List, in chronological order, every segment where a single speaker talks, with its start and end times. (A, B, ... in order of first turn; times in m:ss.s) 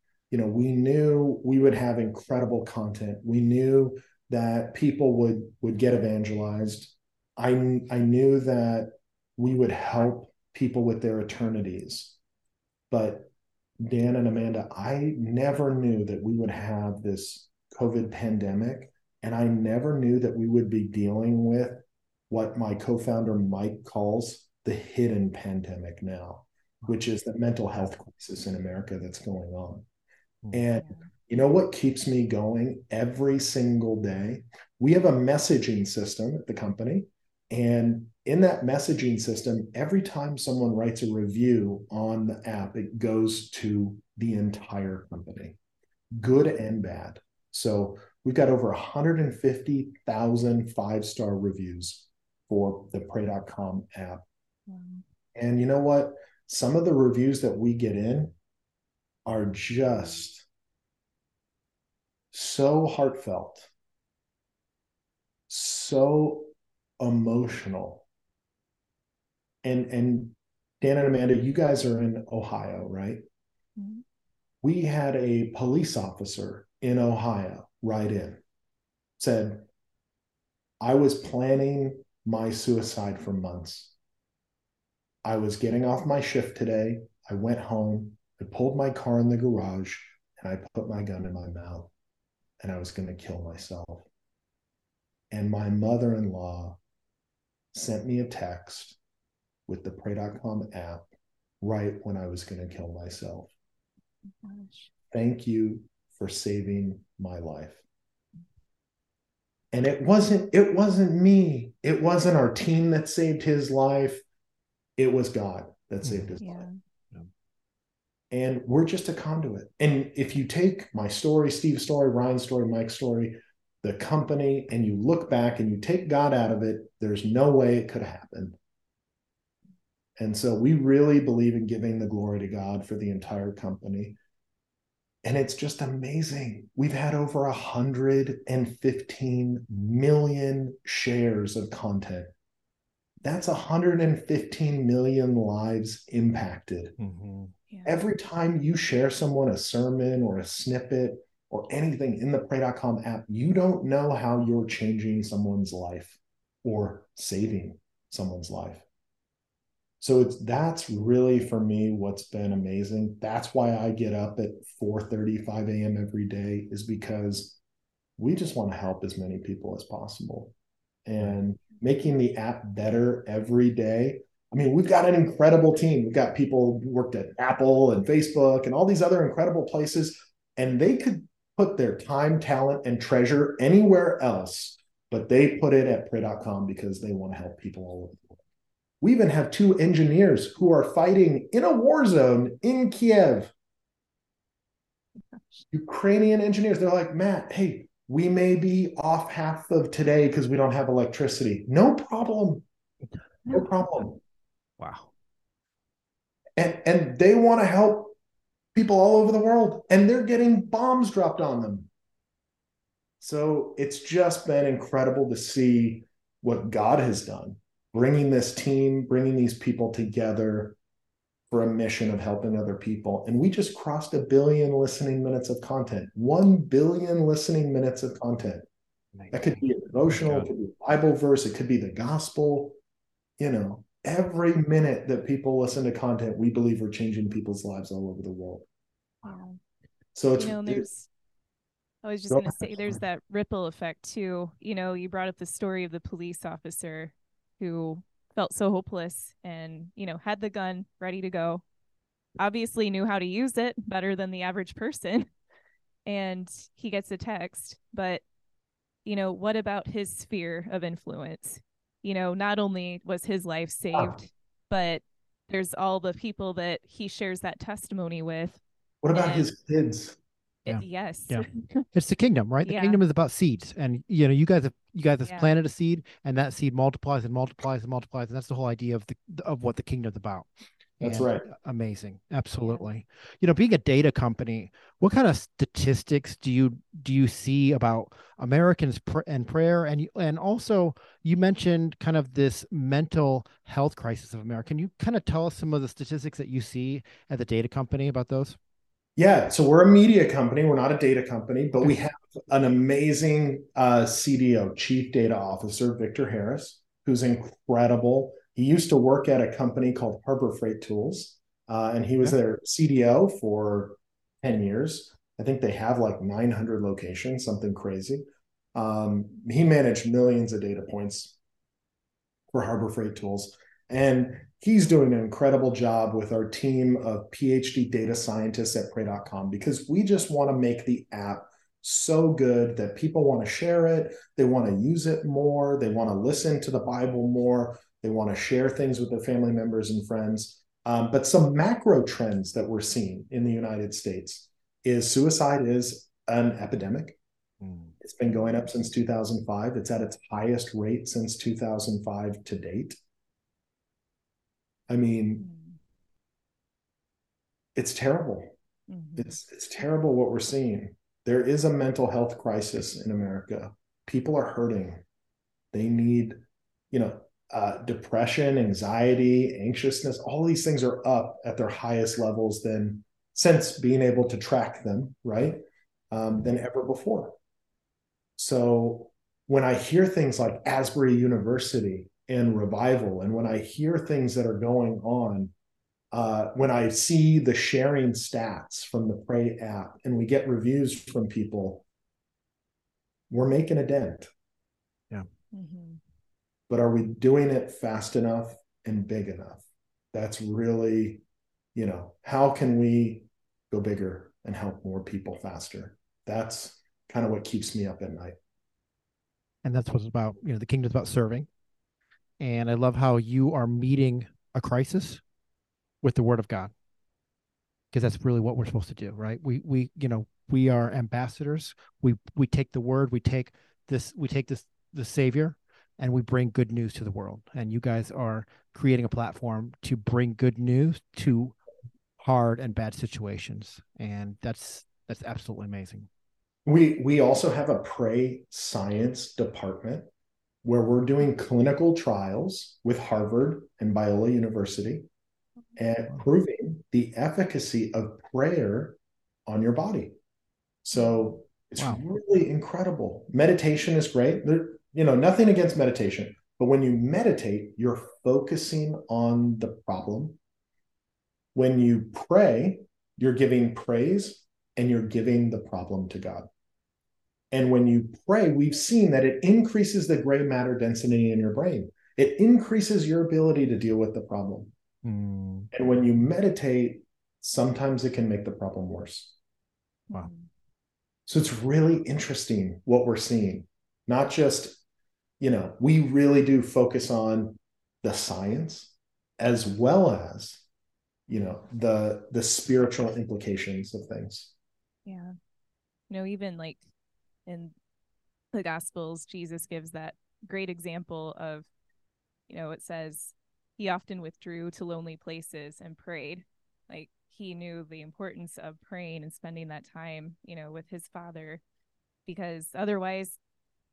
0:00.3-0:12.2 A
0:12.9-0:13.3 A
0:13.8-0:29.8 A
0:30.5-0:45.6 A
0:46.1-0:54.2 A
0:54.7-0:55.0 B
0:55.4-0:58.4 A
0:59.3-1:00.5 A
1:02.3-1:03.7 A
1:05.5-1:08.0 A
1:09.6-1:13.2 A
1:13.8-1:14.0 B
1:14.6-1:18.4 A
1:19.2-1:19.7 A
1:20.8-1:23.9 A
1:25.2-1:31.9 A
1:32.6-1:34.0 A
1:35.3-1:36.8 A
1:37.7-1:39.0 A
1:39.7-1:41.1 A
1:41.6-1:43.5 A
1:44.4-1:44.9 B
1:45.1-1:47.8 A
1:49.7-1:54.2 A
1:55.0-1:56.7 A
1:56.0-1:56.3 C
1:56.4-1:56.7 B
1:58.3-2:08.6 A
2:10.2-2:14.2 A
2:15.2-2:22.3 A
2:23.2-2:27.0 A
2:27.0-2:27.5 C
2:27.7-2:28.0 B
2:27.9-2:38.8 A
2:40.0-2:47.6 A
2:48.2-2:50.5 A
2:51.1-3:08.4 A
3:09.0-3:13.5 A
3:15.7-3:22.6 A
3:23.5-3:24.2 A
3:24.8-3:25.1 C
3:26.6-3:28.2 A
3:28.8-3:31.9 A
3:33.2-3:40.8 A
3:41.5-3:48.6 A
3:49.2-3:50.5 C
3:49.3-3:52.8 A
3:53.4-3:58.6 A
3:59.2-3:59.6 B
4:00.2-4:00.9 A
4:00.4-4:01.1 B
4:02.0-4:11.6 B
4:02.3-4:03.0 A
4:12.4-4:15.3 B
4:16.1-4:18.2 B
4:19.0-4:28.6 B
4:23.9-4:24.2 A
4:29.0-4:30.2 A
4:29.1-4:29.5 B
4:30.6-4:31.8 B
4:30.7-4:40.5 C
4:32.6-4:33.0 B
4:35.2-4:35.5 B
4:41.0-4:58.6 C
4:41.0-4:41.5 A
4:42.6-4:42.9 B
4:59.2-5:21.4 A
5:22.5-5:47.2 A
5:47.6-5:48.0 C
5:48.0-5:53.0 A
5:48.3-5:48.6 B
5:54.9-5:55.5 A
5:55.4-5:55.8 B
5:57.8-5:58.6 A
5:58.9-5:59.3 B
5:59.2-6:05.0 A
6:05.7-6:17.4 A
6:18.4-6:25.5 A
6:26.1-6:31.8 A
6:33.3-6:34.3 A
6:35.5-6:36.0 B
6:36.7-6:41.2 A
6:41.8-6:48.4 A
6:49.6-6:51.5 C
6:52.4-6:55.2 C
6:56.0-6:56.7 C
6:57.9-7:11.6 C
7:12.2-7:16.1 C
7:16.7-7:20.1 A
7:20.6-7:25.1 A
7:25.8-7:30.2 A
7:30.8-7:40.4 A
7:30.9-7:31.4 B
7:31.8-7:32.0 C
7:41.6-7:46.5 A
7:47.5-7:54.7 A
7:55.0-7:55.7 C
7:55.7-7:59.3 A
8:00.1-8:00.5 B
8:01.3-8:04.8 A
8:05.4-8:10.6 A
8:11.3-8:14.5 A
8:15.1-8:15.3 B
8:16.1-8:16.8 B
8:17.5-8:17.7 B
8:18.5-8:21.7 B
8:22.5-8:31.6 B
8:32.3-8:33.4 B